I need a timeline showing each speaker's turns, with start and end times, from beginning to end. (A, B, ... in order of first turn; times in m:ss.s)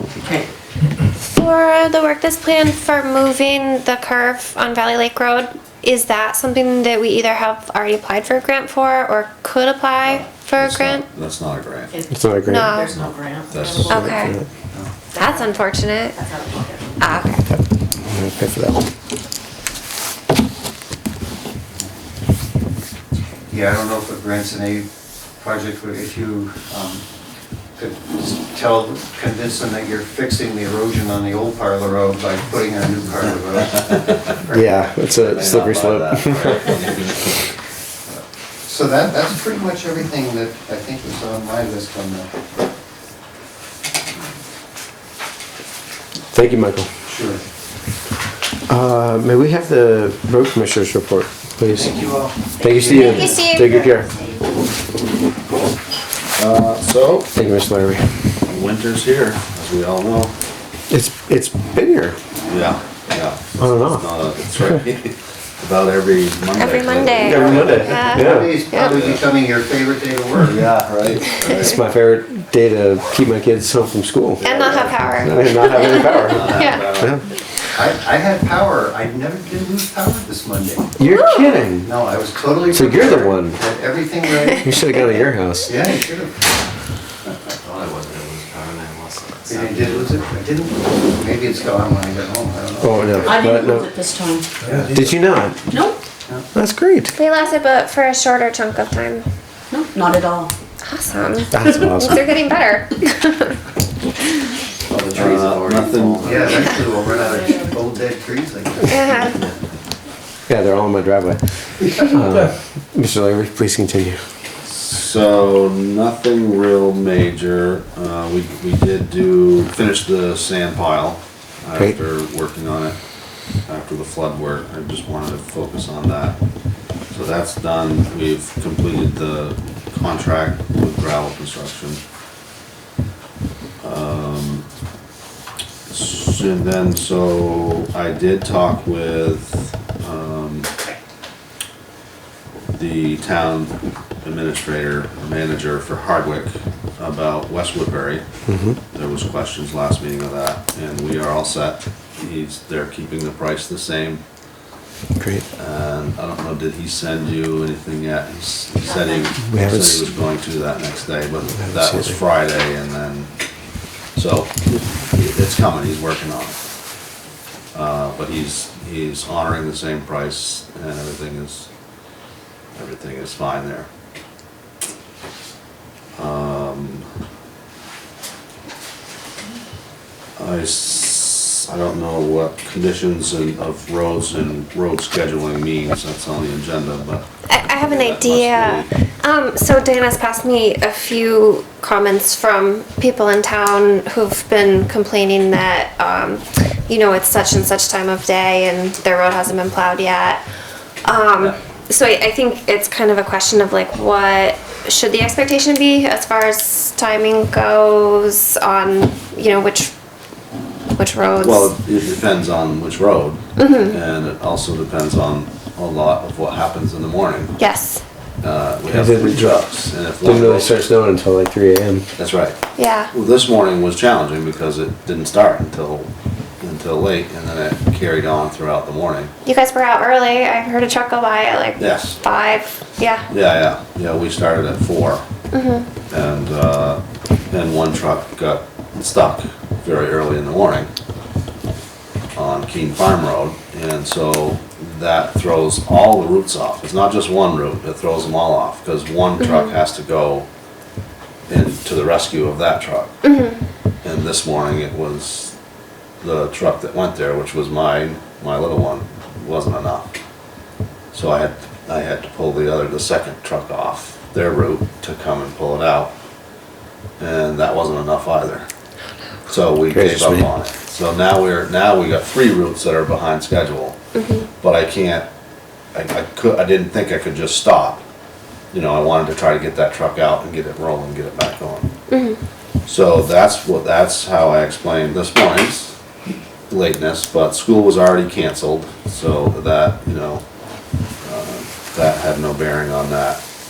0:01.2-0:11.1 A
0:10.0-0:11.9 B
0:11.9-0:14.2 C
0:12.1-0:12.7 D
0:12.5-0:13.0 A
0:12.9-0:14.1 B
0:13.9-0:14.3 A
0:14.0-0:14.4 D
0:15.1-0:15.5 C
0:15.1-0:16.2 A
0:16.1-0:17.1 C
0:17.0-0:17.4 A
0:17.5-0:18.9 D
0:23.5-0:27.0 E
0:27.8-0:34.6 E
0:34.5-0:36.8 D
0:35.2-0:37.5 B
0:38.6-0:42.3 E
0:46.3-0:46.9 D
0:47.1-0:47.4 E
0:48.7-0:54.1 D
0:51.7-0:53.5 E
0:52.8-0:53.1 C
0:53.0-0:53.8 A
0:56.4-0:57.3 B
0:57.3-0:58.1 D
0:58.4-1:00.4 B
1:00.9-1:02.2 D
1:02.5-1:07.8 B
1:03.6-1:04.0 D
1:06.6-1:09.0 A
1:07.2-1:08.6 D
1:07.3-1:10.7 E
1:08.7-1:09.2 B
1:10.4-1:11.7 B
1:11.3-1:14.5 D
1:14.4-1:16.9 A
1:14.4-1:15.1 B
1:15.2-1:17.3 D
1:16.2-1:17.2 B
1:17.7-1:21.0 E
1:21.0-1:21.9 D
1:21.1-1:21.4 A
1:21.8-1:26.5 E
1:22.7-1:23.6 D
1:24.6-1:25.7 D
1:27.6-1:30.1 F
1:29.5-1:33.4 E
1:32.8-1:33.9 D
1:33.2-1:34.5 C
1:34.6-1:35.2 E
1:34.9-1:35.6 D
1:35.7-1:36.0 C
1:36.5-1:37.1 D
1:37.2-1:39.3 A
1:39.7-1:40.5 C
1:40.8-1:43.6 A
1:41.5-1:42.3 D
1:44.9-1:47.0 F
1:45.1-1:46.7 B
1:46.2-1:49.4 E
1:48.8-1:49.4 A
1:50.5-1:54.2 D
1:54.6-2:03.0 B
2:03.7-2:06.4 B
2:07.1-2:12.0 B
2:13.8-2:14.7 B
2:15.9-2:20.7 B
2:22.7-2:28.2 B
2:28.5-2:28.8 D
2:28.9-2:34.2 B
2:35.2-2:35.4 D
2:35.6-2:43.3 B
2:38.9-2:39.2 C
2:39.4-2:40.1 D
2:41.5-2:42.2 D
2:44.1-2:46.7 B
2:47.7-2:51.7 B
2:52.7-2:53.9 B
2:56.2-2:57.1 B
3:00.4-3:08.9 B
3:07.5-3:20.4 A
3:21.0-3:29.9 A
3:31.0-3:31.7 A
3:31.4-3:37.6 B
3:33.6-3:33.9 A
3:37.6-3:38.0 A
3:38.4-3:40.8 B
3:38.9-3:39.7 D
3:40.2-3:42.1 D
3:42.2-3:42.6 B
3:42.8-3:43.1 A
3:43.1-3:49.3 B
3:49.4-3:53.3 A
3:51.8-3:52.2 B
3:53.3-3:55.2 B
3:55.5-3:55.9 A
3:56.1-4:00.9 B
4:02.3-4:10.5 B
4:09.4-4:09.7 A
4:11.5-4:13.2 B
4:13.2-4:13.6 A
4:14.0-4:15.6 B
4:16.2-4:20.1 B
4:21.1-4:26.1 B
4:27.2-4:28.7 B
4:29.5-4:34.0 B
4:29.9-4:30.5 D
4:34.1-4:34.5 A
4:34.6-4:35.3 B
4:35.9-4:38.0 B
4:38.7-4:41.9 B
4:42.1-4:42.4 A
4:42.8-4:45.9 B
4:46.7-4:50.4 B
4:51.2-4:53.4 B